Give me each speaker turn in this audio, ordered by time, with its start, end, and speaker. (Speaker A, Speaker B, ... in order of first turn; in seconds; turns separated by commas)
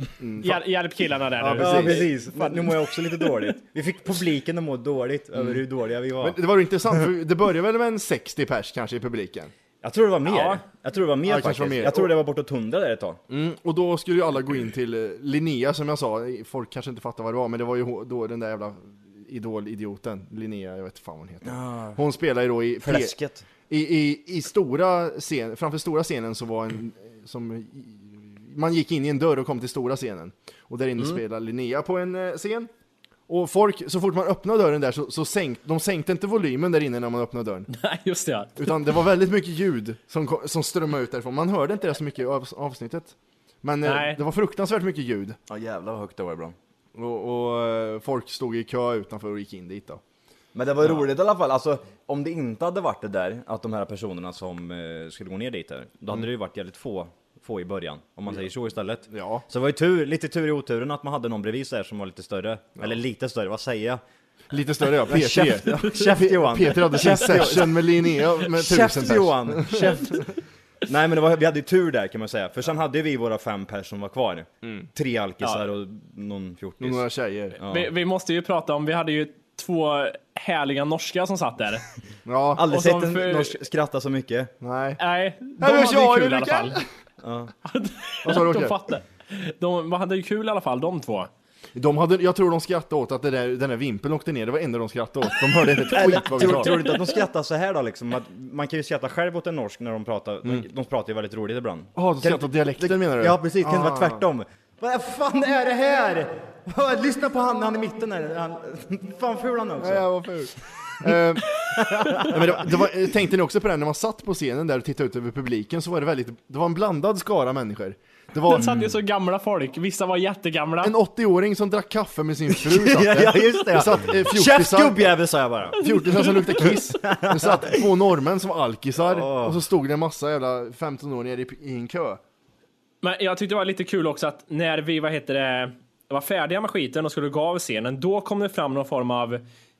Speaker A: 0.2-0.6, Speaker B: 0.4-2.8, Speaker A: 1.4-2.1, Speaker C: 1.6-6.4, Speaker A: 6.2-9.5, Speaker C: 9.8-13.2, Speaker B: 10.3-10.6, Speaker A: 11.3-12.1, Speaker A: 13.3-23.1, Speaker C: 21.4-22.0, Speaker C: 22.8-23.5, Speaker A: 23.7-32.7, Speaker A: 33.3-37.7, Speaker B: 37.7-38.7, Speaker A: 38.6-45.4, Speaker B: 43.8-44.2, Speaker C: 45.5-46.6, Speaker A: 47.0-50.0, Speaker C: 50.5-64.0, Speaker A: 59.1-59.4, Speaker A: 64.5-70.2, Speaker C: 65.1-70.3, Speaker C: 70.9-77.0, Speaker A: 76.8-77.6, Speaker C: 77.6-77.9, Speaker B: 77.7-81.8, Speaker A: 82.3-82.6, Speaker C: 82.6-84.5, Speaker B: 82.7-83.5, Speaker A: 84.6-85.0, Speaker B: 85.0-86.8, Speaker A: 85.6-86.8, Speaker C: 87.2-87.5, Speaker B: 87.7-91.3, Speaker A: 88.2-88.8, Speaker A: 91.8-96.7, Speaker C: 95.9-110.1, Speaker B: 96.4-96.9, Speaker A: 102.0-104.2, Speaker A: 109.8-111.5, Speaker C: 111.7-112.6, Speaker A: 112.2-118.7, Speaker B: 118.5-120.9, Speaker A: 120.8-125.1, Speaker C: 122.6-125.8, Speaker A: 125.8-132.2, Speaker C: 127.0-127.8, Speaker C: 129.0-129.6, Speaker B: 133.0-139.4